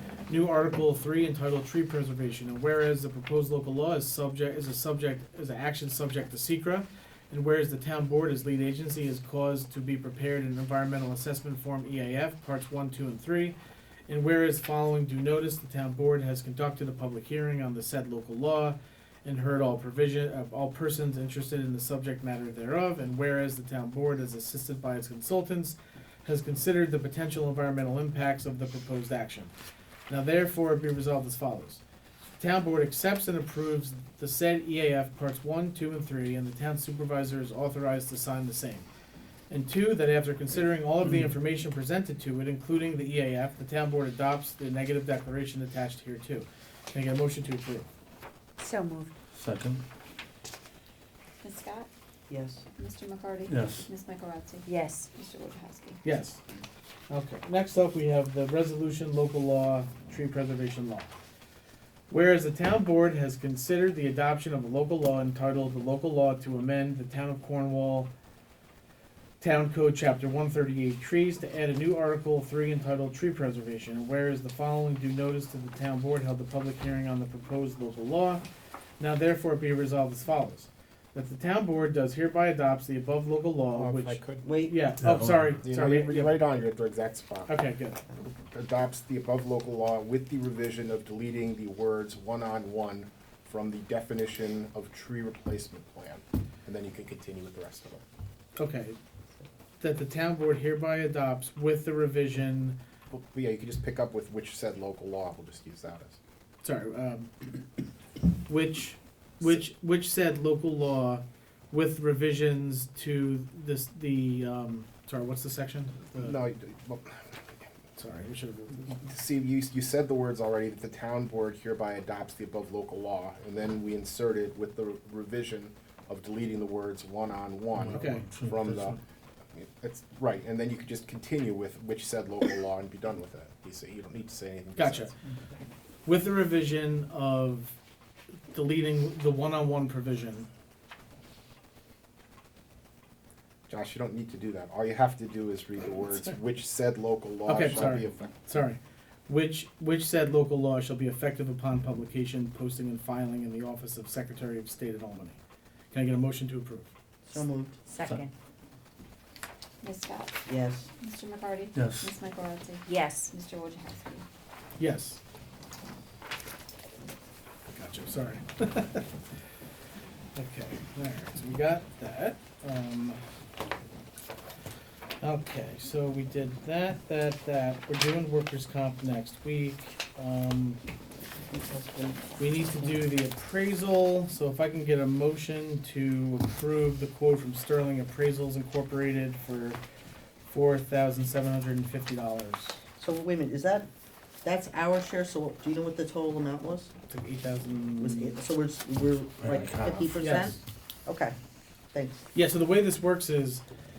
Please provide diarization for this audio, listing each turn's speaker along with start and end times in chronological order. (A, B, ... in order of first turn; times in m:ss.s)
0:00.3-0:13.6 A
0:14.1-0:29.5 A
0:30.1-0:31.8 A
0:32.4-0:38.9 A
0:39.5-0:47.9 A
0:48.6-0:49.2 B
0:49.3-0:49.8 C
0:51.4-0:51.9 D
0:52.3-0:52.6 E
0:52.8-0:56.0 D
0:53.5-0:53.9 C
0:54.7-0:55.1 B
0:56.0-0:56.4 A
0:57.1-1:01.1 A
1:02.1-1:08.1 A
1:09.4-1:18.5 A
1:19.0-1:26.4 A
1:23.7-1:24.5 F
1:24.4-1:24.8 E
1:25.0-1:25.6 C
1:25.6-1:27.6 F
1:27.5-1:28.0 A
1:28.4-1:38.0 F
1:38.6-1:39.0 A
1:39.8-1:42.8 A
1:43.1-1:46.2 F
1:46.6-1:47.3 A
1:48.5-1:56.4 A
1:56.2-1:57.2 F
1:58.0-1:59.0 A
1:59.0-2:09.0 F
2:07.8-2:09.0 C
2:07.9-2:08.3 A
2:09.5-2:15.1 F
2:14.8-2:15.1 A
2:16.0-2:17.8 A
2:18.5-2:20.5 A
2:23.7-2:28.3 F
2:27.5-2:35.4 A
2:35.9-2:36.9 A
2:37.3-2:37.8 E
2:37.9-2:38.3 B
2:39.8-2:40.4 D
2:40.5-2:40.9 E
2:41.0-2:44.2 D
2:41.7-2:42.1 C
2:42.9-2:43.3 B
2:44.8-2:45.2 A
2:47.7-2:49.1 A
2:50.4-2:53.2 A
2:55.2-3:00.8 A
3:01.5-3:02.9 E
3:02.4-3:09.8 A
3:10.5-3:12.8 A
3:13.0-3:13.9 E
3:14.4-3:16.9 E
3:17.1-3:18.4 A
3:18.0-3:21.4 E
3:19.4-3:20.2 C
3:19.5-3:19.9 F
3:20.2-3:20.6 A
3:21.9-3:22.2 E
3:22.3-3:23.6 A